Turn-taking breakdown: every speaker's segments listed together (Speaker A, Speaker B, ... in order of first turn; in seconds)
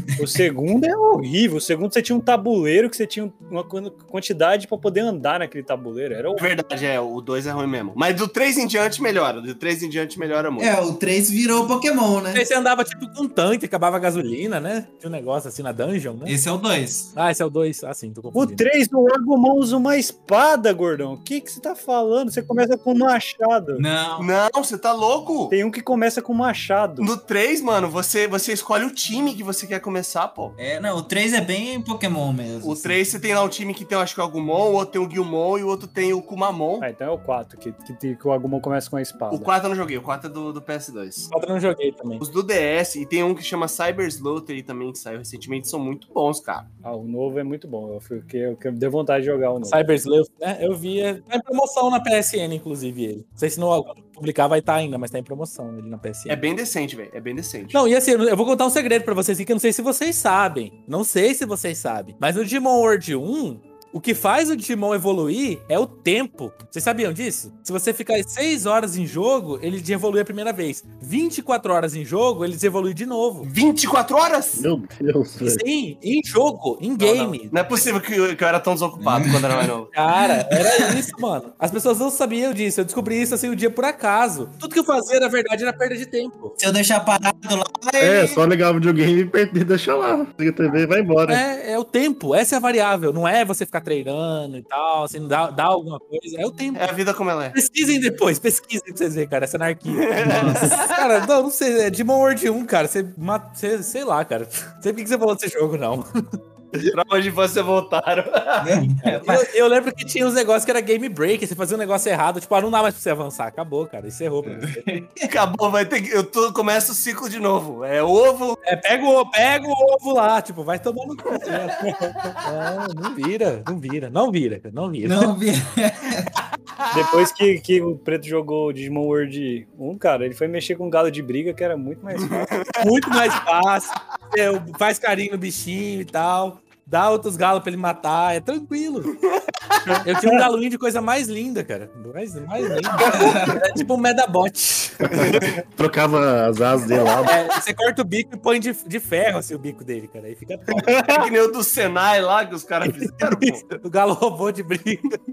Speaker A: 0.2-6.5, 18.3-23.9, 25.5-27.1, 36.8-39.5, 46.8-49.9, 121.8-122.3, 126.9-132.6
Speaker B: 6.4-10.7, 24.2-25.6, 27.0-30.6, 32.6-36.9, 39.3-41.3, 42.2-46.7, 56.3-57.8, 73.4-74.7, 77.0-79.9, 96.8-97.6, 99.9-101.0, 106.8-108.8, 115.3-118.6, 132.1-132.8, 151.1-153.6
Speaker C: 10.6-12.4, 16.3-17.1, 23.8-24.3, 30.6-33.0, 79.0-79.6, 80.5-80.9, 86.6-88.4, 100.3-100.6, 108.6-109.5, 114.5-115.3, 125.0-126.3
Speaker D: 12.3-16.4, 17.1-18.6, 41.3-42.2, 49.7-56.4, 57.7-73.5, 75.4-77.5, 79.9-86.6, 91.3-96.9, 97.5-106.0, 109.1-114.8, 118.6-121.9, 122.4-125.3, 132.8-139.1, 140.0-145.2, 147.2-150.9, 153.4-155.2
Speaker E: 74.5-75.6, 88.0-91.4, 145.1-147.3